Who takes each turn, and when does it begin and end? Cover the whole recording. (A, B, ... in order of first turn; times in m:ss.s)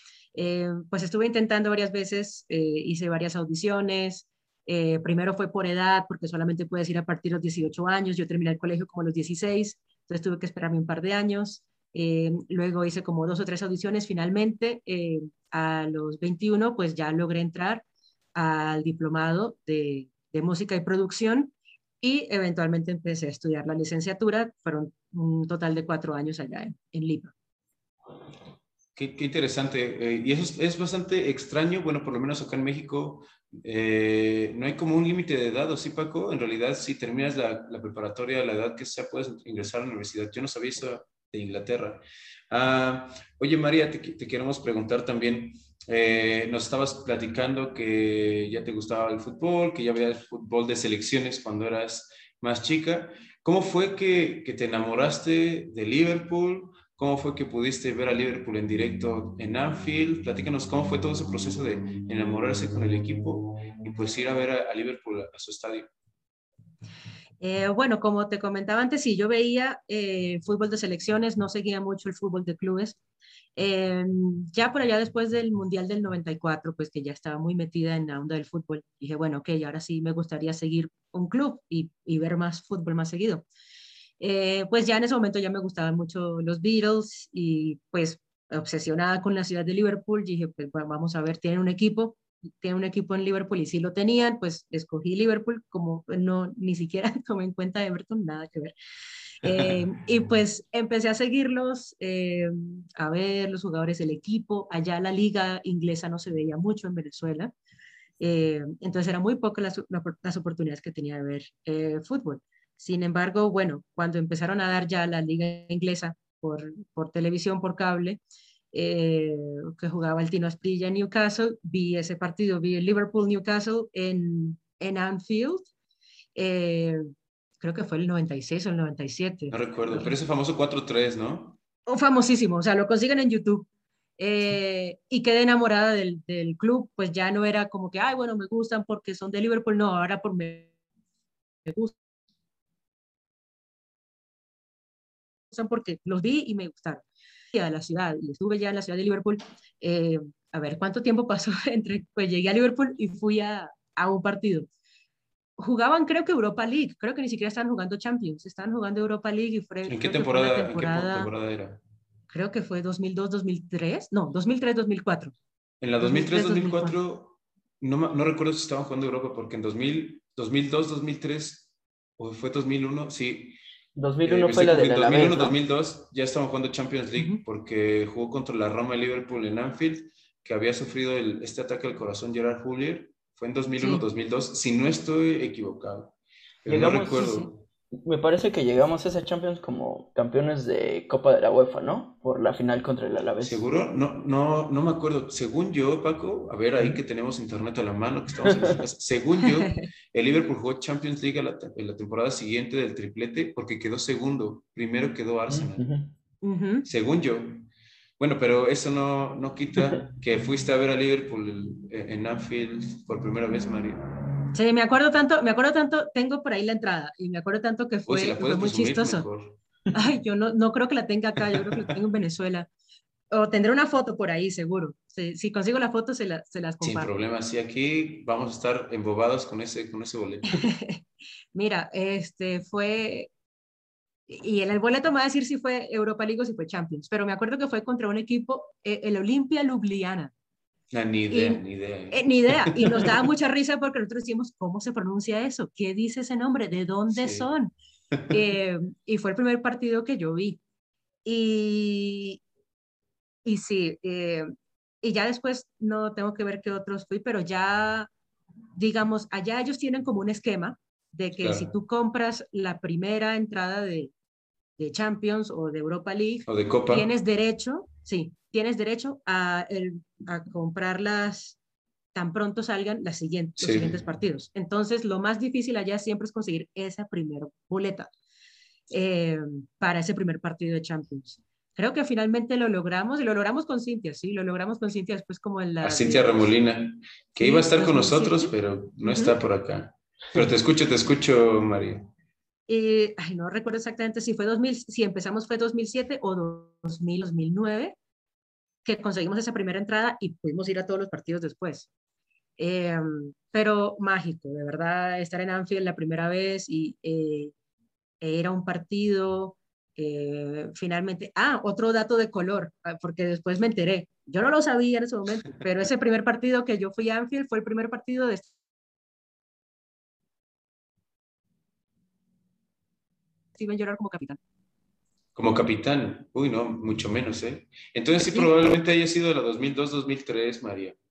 0:00.3-0:17.8 A
0:18.3-0:27.3 A
0:29.0-1:05.9 B
1:07.4-1:13.0 A
1:13.6-1:23.4 A
1:24.2-1:38.7 A
1:39.4-1:47.5 A
1:39.4-1:39.8 B
1:48.2-1:58.2 A
1:58.7-2:05.7 A
2:06.3-2:07.0 A
2:07.6-2:10.2 A
2:09.5-2:11.6 B
2:11.9-2:13.7 A
2:14.2-2:20.7 A
2:21.6-2:21.9 A
2:25.5-2:27.0 A
2:27.5-2:34.7 A
2:35.6-2:41.3 A
2:39.9-2:41.8 B
2:42.3-2:45.3 A
2:45.8-2:53.6 B
2:46.0-2:47.0 A
2:54.0-2:55.5 C
2:54.2-3:07.6 B
3:03.8-3:04.0 A
3:06.6-3:07.4 C
3:07.2-3:07.4 A
3:07.9-3:13.6 C
3:13.4-3:25.9 B
3:18.4-3:18.7 C
3:25.5-3:26.1 C
3:26.4-3:26.8 A
3:26.8-3:27.7 B
3:28.2-3:34.0 B
3:34.5-3:39.2 A
3:38.1-3:39.6 B
3:39.9-3:42.7 A
3:43.3-3:47.1 A
3:46.8-3:50.6 B
3:50.5-3:53.3 A
3:54.3-4:00.3 A
4:00.9-4:03.2 B
4:01.3-4:07.7 A
4:07.1-4:07.5 B
4:08.3-4:10.6 A
4:11.2-4:12.4 A
4:13.4-4:14.4 A
4:15.0-4:18.1 A
4:18.8-4:24.1 A
4:21.4-4:21.7 B
4:24.8-4:31.6 A
4:26.5-4:27.1 B
4:32.1-4:38.1 A
4:33.6-4:34.0 B
4:38.9-4:46.3 A
4:45.8-4:52.1 B
4:47.4-4:49.3 A
4:52.7-4:58.0 A
4:58.8-5:01.9 A
5:02.6-5:07.5 A
5:08.2-5:18.5 A
5:23.6-5:24.4 A
5:25.3-5:31.0 B
5:28.2-5:28.5 A